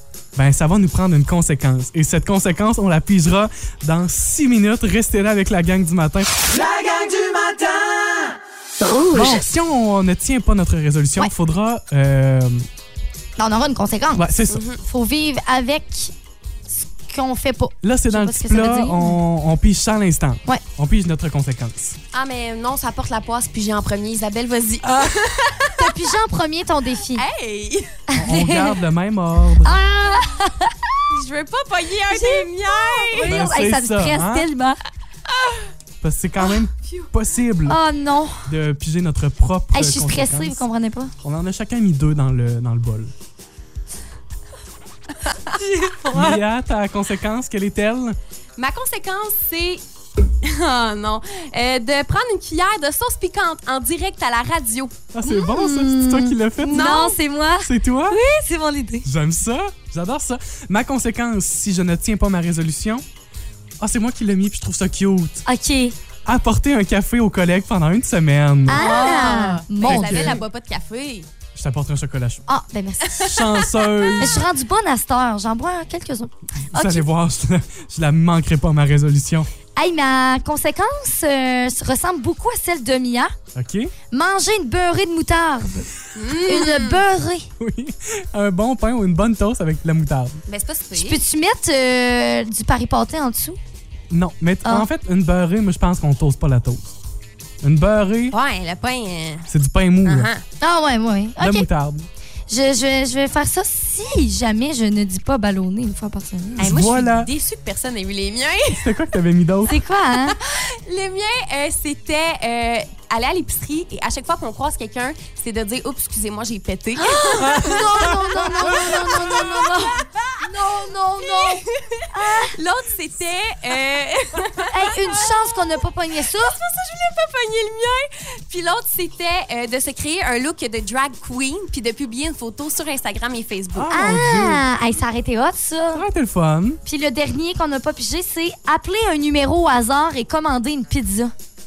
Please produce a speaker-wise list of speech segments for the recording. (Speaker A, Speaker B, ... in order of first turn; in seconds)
Speaker A: 0.3-6.3, 9.1-12.7, 14.1-14.6, 17.8-22.0, 28.1-29.8, 33.2-34.5, 36.0-37.8, 38.4-40.6, 41.2-43.1, 46.1-48.2, 55.1-57.0, 57.6-58.2, 59.0-63.0, 63.8-65.4, 66.2-68.9, 69.8-70.4, 71.5-72.4, 73.1-74.5, 76.7-79.5, 83.5-83.9, 87.6-90.4, 94.1-96.9, 97.6-98.4, 99.5-100.3, 101.4-102.1, 106.6-107.3, 108.7-109.8, 117.5-119.2, 133.7-134.6, 135.9-136.8
Speaker B: 6.4-8.4
Speaker C: 8.8-9.4, 13.4-14.3, 14.8-16.1, 16.7-19.2, 24.9-25.1, 25.7-27.2, 28.1-28.8, 29.6-30.7, 32.1-34.8, 37.6-38.5, 39.7-41.1, 45.5-46.4, 55.2-59.0, 65.5-65.9, 68.7-70.4, 72.5-73.4, 74.1-77.1, 79.8-83.3, 84.1-87.5, 90.9-93.6, 100.6-101.7, 102.5-106.7, 109.7-110.4, 117.0-122.5, 124.7-126.5, 133.9-136.0, 136.8-141.3
Speaker D: 14.5-14.8, 22.1-26.0, 27.1-27.9, 31.1-33.4, 35.3-35.6, 45.2-45.5, 48.6-49.8, 50.4-55.1, 56.6-57.2, 68.7-71.3, 86.1-87.0, 90.5-91.2, 98.3-99.5, 100.0-100.4, 106.6-109.0, 110.3-134.2